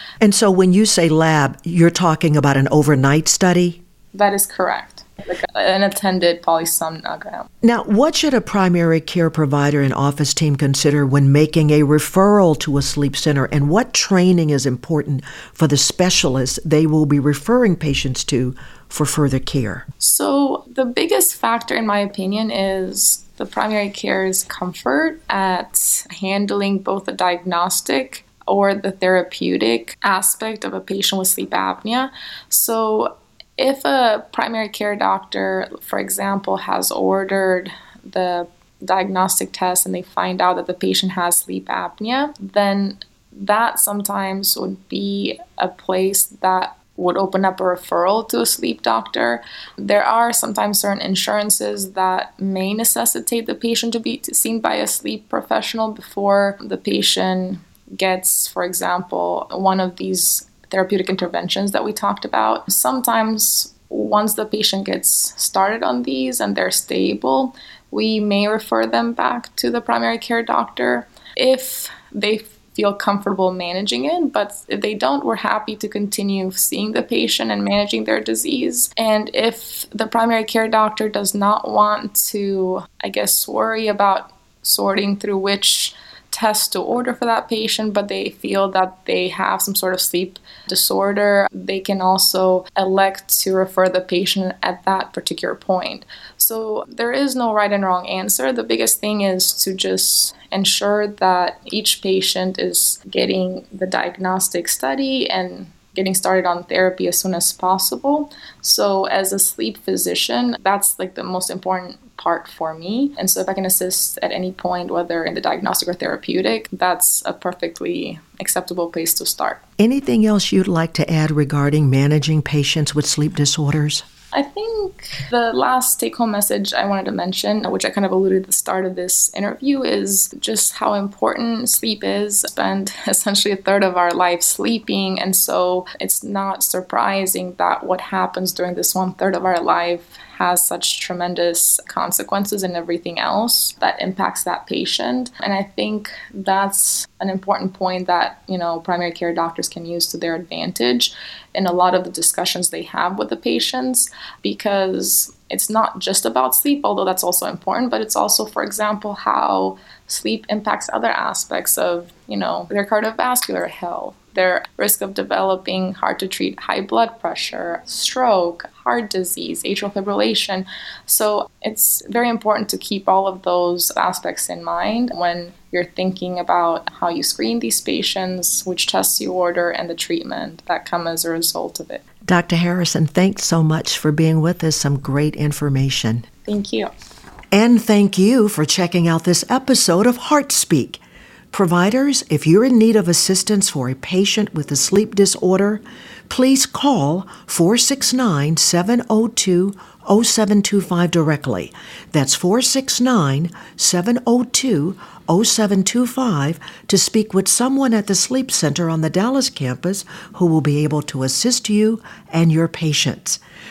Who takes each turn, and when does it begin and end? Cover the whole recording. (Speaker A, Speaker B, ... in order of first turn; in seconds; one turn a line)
Speaker A: 0.2-3.8
Speaker B: 4.1-7.5
Speaker A: 7.6-19.9
Speaker B: 20.0-119.6
Speaker A: 119.8-124.1
Speaker B: 124.3-182.0
Speaker A: 182.3-186.3
Speaker B: 186.5-186.9
Speaker A: 187.5-191.0
Speaker A: 191.5-213.4